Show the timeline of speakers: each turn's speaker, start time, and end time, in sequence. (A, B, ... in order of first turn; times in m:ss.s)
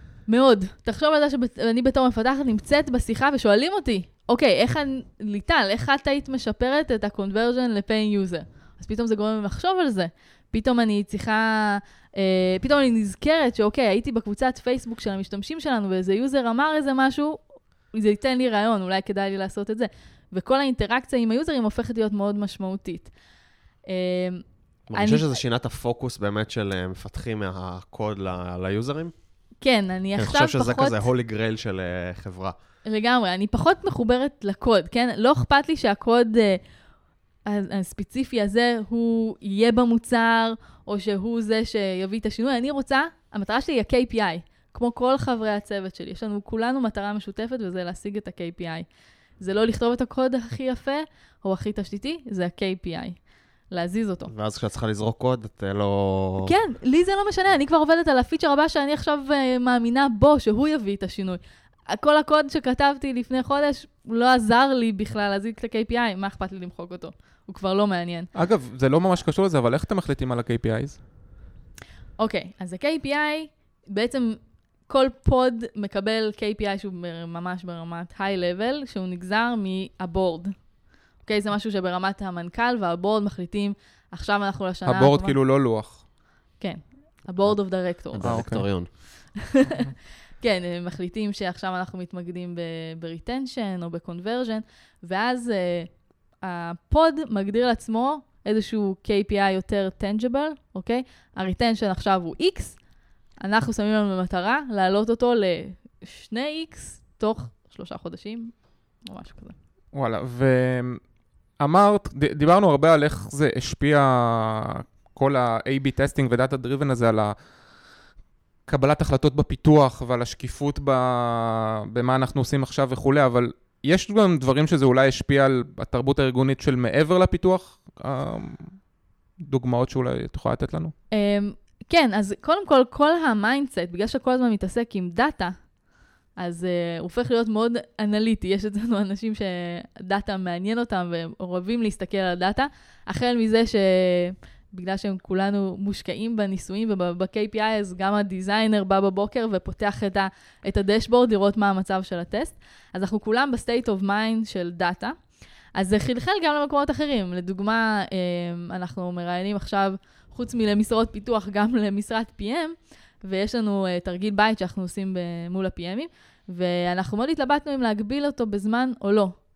0:00.3-0:23.1 A
0:23.9-0:24.4 A
0:24.9-0:29.1 B
0:24.9-0:25.4 A
0:29.6-0:31.0 A
0:30.2-0:32.5 B
0:32.8-0:36.6 A
0:37.4-0:48.9 A
0:49.4-0:54.3 A
0:54.3-0:56.5 B
0:56.4-1:08.3 A
1:08.3-1:11.0 C
1:12.2-1:25.4 A
1:24.8-1:26.0 C
1:26.6-1:28.7 A
1:28.1-1:28.9 B
1:28.2-1:28.7 C
1:29.4-1:29.8 A
1:30.4-1:42.8 A
1:43.4-1:49.6 A
1:49.9-1:51.0 C
1:51.6-1:57.4 C
1:58.6-2:08.8 C
2:09.4-2:10.9 C
2:11.1-2:15.6 A
2:16.4-2:35.2 A
2:35.7-2:49.4 A